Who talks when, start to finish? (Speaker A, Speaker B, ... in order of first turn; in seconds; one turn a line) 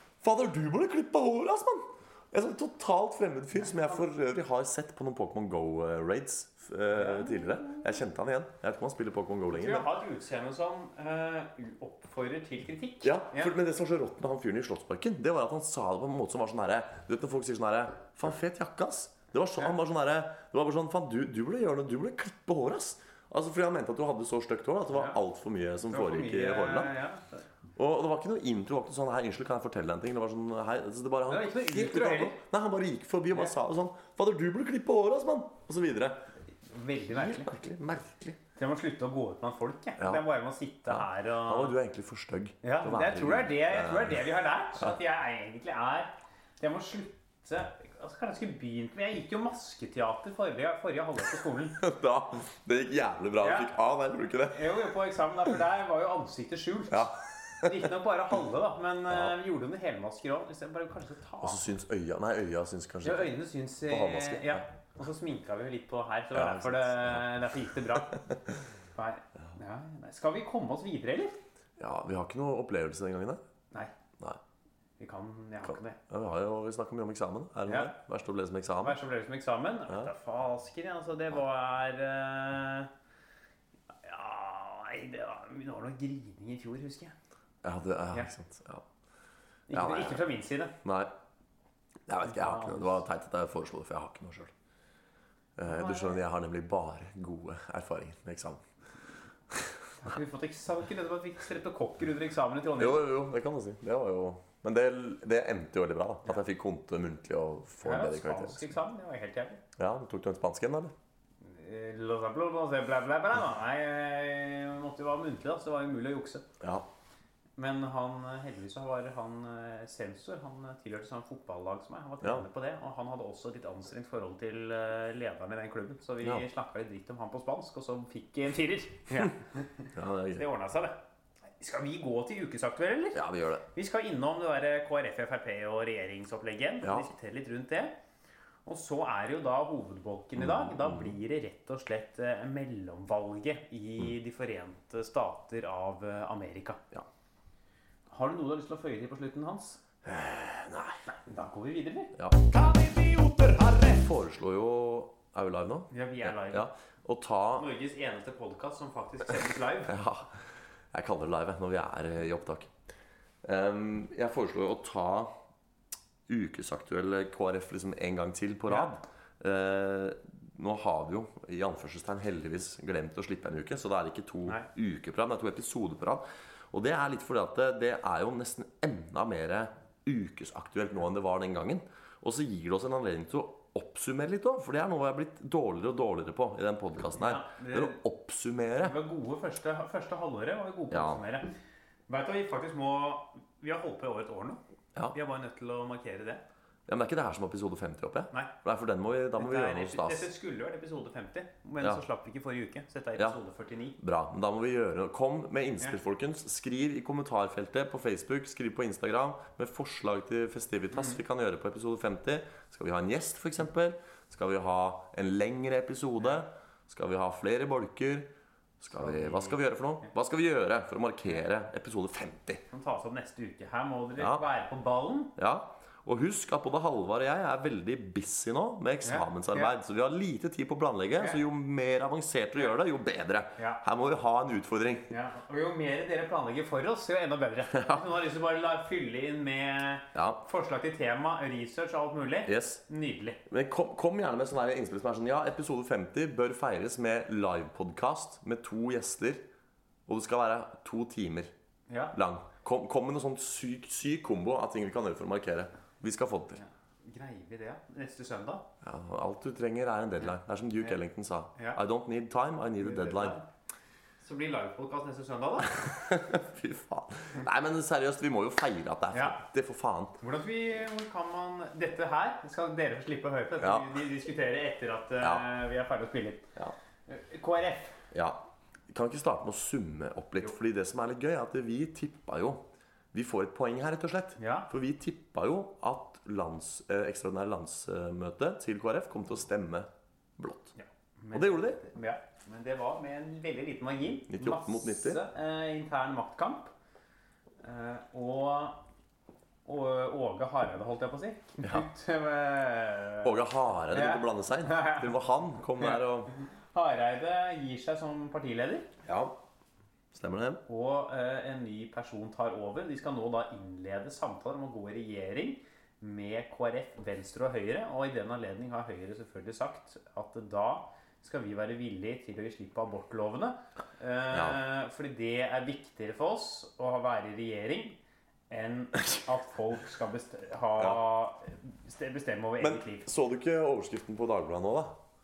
Speaker A: 0.2-9.9
Speaker B: 7.0-7.8
Speaker B: 9.5-13.5
Speaker A: 13.0-26.9
Speaker B: 24.9-25.2
Speaker B: 25.9-27.4
Speaker A: 27.8-36.3
Speaker B: 31.3-32.4
Speaker B: 36.7-37.5
Speaker A: 37.1-38.4
Speaker B: 38.6-41.8
Speaker A: 40.0-40.2
Speaker A: 40.9-44.2
Speaker B: 42.6-51.8
Speaker A: 51.8-54.6
Speaker B: 53.4-53.7
Speaker B: 54.5-61.6
Speaker A: 56.9-57.9
Speaker A: 59.1-59.4
Speaker A: 61.4-64.6
Speaker B: 63.0-68.3
Speaker A: 66.3-67.3
Speaker B: 69.0-71.4
Speaker A: 71.8-73.4
Speaker B: 75.0-76.0
Speaker A: 75.6-79.0
Speaker B: 77.7-77.9
Speaker B: 78.8-82.9
Speaker B: 84.0-87.2
Speaker A: 87.6-88.8
Speaker B: 89.7-90.8
Speaker A: 89.7-90.3
Speaker A: 90.8-91.1
Speaker A: 92.1-94.5
Speaker B: 92.2-93.0
Speaker A: 95.6-98.6
Speaker B: 95.7-96.2
Speaker B: 100.0-103.0
Speaker A: 102.8-108.7
Speaker B: 107.8-109.6
Speaker A: 109.8-110.9
Speaker B: 111.4-116.5
Speaker A: 116.6-116.9
Speaker B: 117.6-131.0
Speaker A: 129.9-130.4
Speaker B: 131.6-137.9
Speaker A: 133.1-133.6
Speaker B: 138.7-146.8
Speaker A: 140.4-141.2
Speaker B: 148.1-149.8
Speaker A: 150.0-151.0
Speaker B: 151.1-152.2
Speaker A: 152.2-157.7
Speaker B: 155.9-156.7
Speaker B: 157.6-160.0
Speaker A: 159.9-160.4
Speaker A: 160.9-162.7
Speaker A: 163.4-165.3
Speaker A: 166.3-189.0
Speaker B: 187.2-188.0
Speaker B: 188.8-191.5
Speaker A: 190.9-191.2
Speaker B: 192.1-194.6
Speaker B: 195.1-196.4
Speaker A: 196.9-200.3
Speaker B: 199.4-204.0
Speaker A: 204.0-218.3
Speaker B: 210.9-211.2
Speaker A: 218.8-222.6
Speaker B: 219.0-219.6
Speaker B: 222.7-225.3
Speaker A: 224.2-224.4
Speaker A: 225.4-235.1
Speaker B: 229.0-229.7
Speaker B: 231.2-231.4
Speaker B: 233.6-233.8
Speaker B: 235.1-243.4
Speaker A: 237.7-238.0
Speaker A: 240.1-240.4
Speaker A: 242.5-242.8
Speaker A: 243.5-249.4
Speaker A: 250.1-251.5
Speaker B: 251.9-252.2
Speaker A: 252.1-256.6
Speaker B: 256.6-258.7
Speaker A: 258.8-263.4
Speaker B: 261.6-261.8
Speaker B: 262.8-263.5
Speaker B: 264.2-265.9
Speaker A: 265.8-270.2
Speaker B: 269.1-269.4
Speaker B: 270.2-276.5
Speaker A: 273.6-273.9
Speaker A: 275.2-275.5
Speaker B: 277.1-278.0
Speaker A: 278.1-290.7
Speaker B: 284.4-284.7
Speaker B: 290.8-296.7
Speaker A: 291.3-291.8
Speaker A: 294.3-295.2
Speaker B: 297.6-298.8
Speaker B: 299.6-303.4
Speaker A: 303.2-306.3
Speaker B: 303.9-305.1
Speaker B: 305.8-306.0
Speaker B: 306.7-308.9
Speaker A: 309.1-309.4
Speaker A: 310.1-310.6
Speaker B: 310.7-328.0
Speaker A: 324.3-324.6
Speaker B: 328.5-333.1
Speaker A: 332.6-335.0